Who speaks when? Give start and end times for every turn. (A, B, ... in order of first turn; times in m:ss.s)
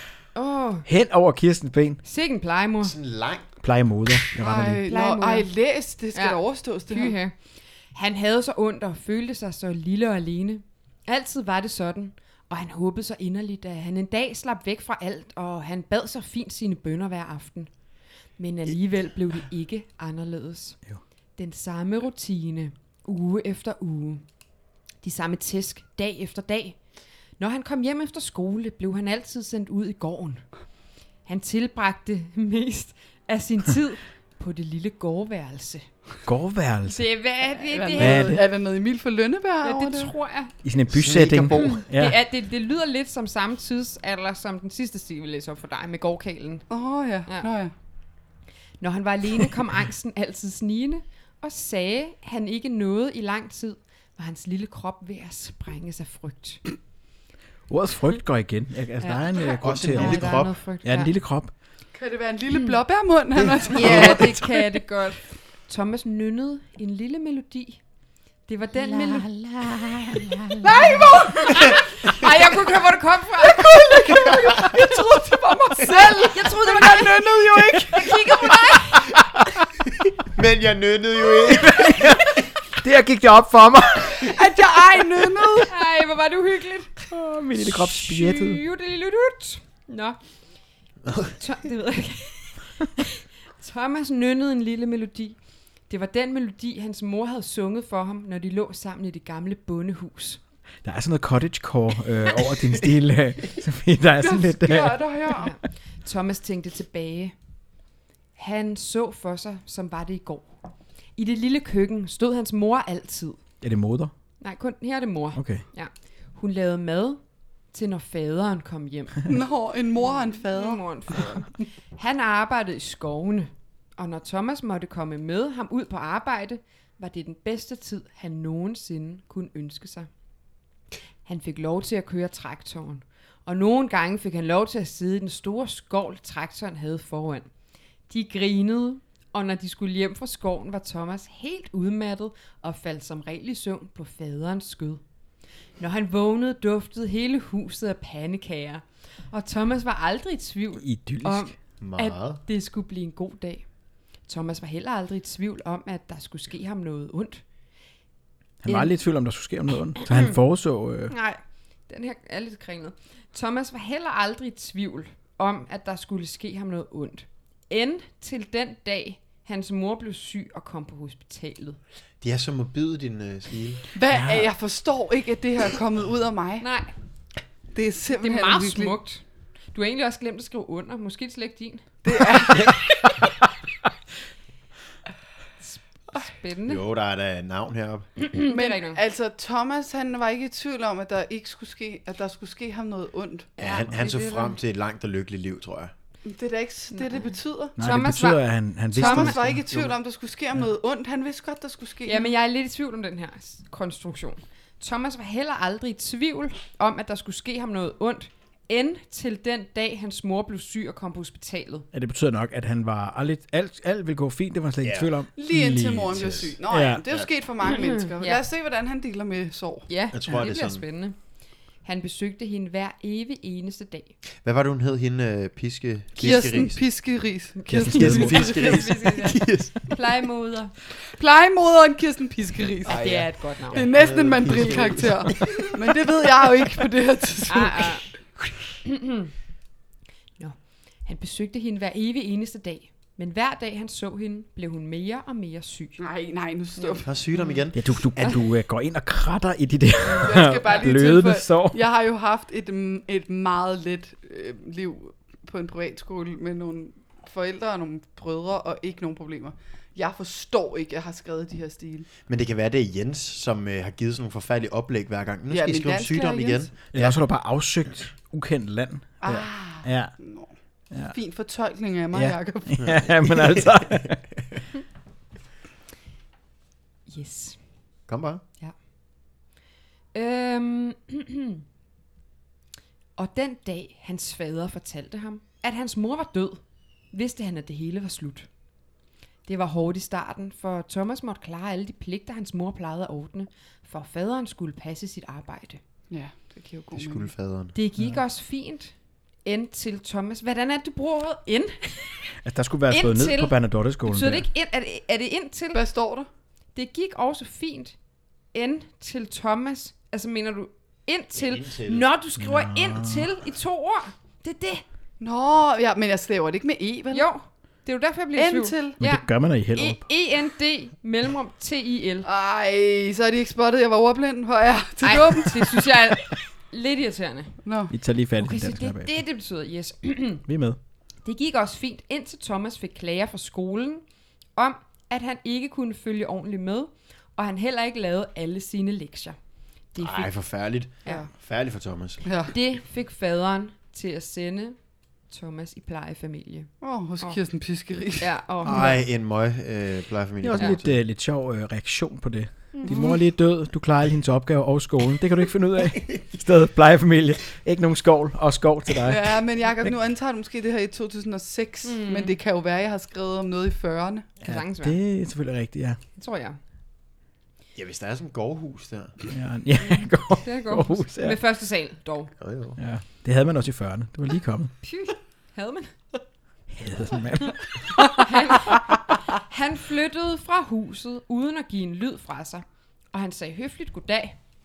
0:00.3-0:00.9 A
0:00.8-0:02.0 B
0:02.0-0:02.9 A
0:02.8-0:03.4 C
0:03.6-0:04.8 B
0:04.4-0:07.2 D
0:04.9-0:05.5 A
0:06.1-0:07.3 A
0:07.9-0:17.7 A
0:18.4-0:20.8 A
0:21.4-0:24.2 A
0:25.0-0:26.8 A
0:27.4-0:30.5 A
0:31.2-0:35.9 A
0:36.2-0:37.0 B
0:36.8-0:38.4 A
0:37.6-0:40.1 D
0:38.0-0:38.4 B
0:39.6-0:40.5 A
0:40.6-0:42.2 B
0:40.9-0:41.8 C
0:41.6-0:46.7 A
0:46.7-0:47.7 D
0:48.8-0:56.6 A
0:57.7-1:01.5 B
0:59.0-1:01.1 A
0:59.6-1:00.5 C
1:01.9-1:04.3 D
1:03.4-1:04.4 C
1:03.7-1:07.8 A
1:08.5-1:14.2 A
1:10.6-1:11.8 D
1:13.4-1:18.6 D
1:16.3-1:17.3 A
1:17.8-1:19.1 A
1:20.2-1:22.3 C
1:21.5-1:22.3 B
1:22.8-1:24.4 B
1:24.2-1:25.7 D
1:25.7-1:27.1 A
1:27.1-1:28.6 B
1:27.6-1:30.2 A
1:31.4-1:35.4 A
1:35.9-1:40.4 A
1:40.8-1:45.1 B
1:44.2-1:45.5 D
1:45.4-1:47.3 A
1:48.4-1:50.6 A
1:51.1-1:53.4 A
1:53.6-1:54.1 B
1:54.4-1:59.3 A
1:55.3-1:55.6 B
1:59.2-2:01.3 D
2:00.0-2:10.1 A
2:11.2-2:17.5 A
2:18.1-2:25.0 A
2:25.8-2:33.6 A
2:30.8-2:31.5 B
2:31.8-2:32.4 C
2:34.2-2:37.4 A
2:38.6-2:41.1 B
2:38.7-2:38.9 A
2:40.0-2:40.4 A
2:41.1-2:51.8 A
2:52.2-2:53.8 C
2:53.9-2:56.6 D
2:54.1-2:54.5 B
2:56.6-2:56.9 A
2:57.7-2:59.0 D
2:58.2-3:02.7 A
3:02.0-3:02.8 D
3:05.6-3:06.8 A
3:06.6-3:08.1 C
3:08.2-3:09.0 A
3:08.4-3:13.5 D
3:13.6-3:14.5 A
3:13.6-3:15.9 C
3:16.2-3:17.7 D
3:16.9-3:19.3 A
3:17.8-3:19.6 B
3:18.9-3:22.3 D
3:19.7-3:19.9 C
3:22.0-3:31.9 A
3:31.9-3:37.0 B
3:34.8-3:35.1 C
3:35.4-3:39.9 D
3:36.1-3:36.5 C
3:37.6-3:38.4 A
3:39.9-3:41.2 A
3:40.1-3:40.8 C
3:41.8-3:44.1 A
3:44.4-3:46.8 C
3:46.2-3:48.9 D
3:47.6-3:50.7 A
3:47.7-3:48.7 B
3:47.9-3:50.0 C
3:51.1-3:53.1 D
3:52.8-3:53.9 A
3:52.8-3:55.7 C
3:53.7-3:58.0 D
3:57.5-3:58.1 A
3:58.8-3:59.3 A
4:00.4-4:06.0 A
4:06.0-4:07.4 D
4:06.8-4:07.6 A
4:07.0-4:08.4 C
4:07.7-4:11.8 B
4:10.2-4:22.1 D
4:22.2-4:27.2 C
4:25.5-4:26.7 D
4:26.9-4:30.2 B
4:29.2-4:30.5 D
4:31.0-4:32.9 D
4:32.1-4:34.3 B
4:32.8-4:34.1 C
4:37.1-4:37.6 A
4:38.1-4:38.4 C
4:40.1-4:41.6 A
4:43.2-4:48.5 A
4:49.4-4:55.8 A
4:56.1-4:57.3 D
4:56.9-4:57.7 C
4:57.7-4:58.9 A
4:59.4-5:02.3 A
5:02.4-5:04.5 B
5:02.9-5:05.8 A
5:05.7-5:06.3 D
5:06.7-5:08.0 A
5:08.5-5:14.8 A
5:11.3-5:12.0 C
5:12.4-5:13.3 B
5:15.2-5:17.3 D
5:17.1-5:22.3 A
5:18.4-5:19.0 D
5:19.0-5:20.0 B
5:22.2-5:25.8 D
5:25.0-5:27.6 A
5:27.6-5:27.9 D
5:27.9-5:29.1 B
5:28.4-5:30.4 A
5:30.5-5:30.8 B
5:31.2-5:34.0 A
5:34.6-5:39.4 A
5:39.9-5:40.3 A
5:40.0-5:42.2 C
5:41.0-5:41.3 D
5:42.2-5:42.5 D
5:42.5-5:44.8 A
5:45.3-5:47.4 A
5:46.8-5:48.3 D
5:48.2-5:49.0 A
5:48.6-5:51.0 C
5:50.4-5:59.9 B
5:52.7-5:53.2 A
5:59.0-6:04.3 D
6:01.8-6:02.3 A
6:04.4-6:05.0 A
6:04.4-6:06.0 B
6:06.2-6:06.6 A
6:07.7-6:09.1 C
6:09.3-6:11.4 B
6:10.4-6:12.3 A
6:12.4-6:12.8 C
6:12.8-6:14.7 B
6:14.8-6:15.9 A
6:16.7-6:18.0 B
6:18.1-6:24.4 A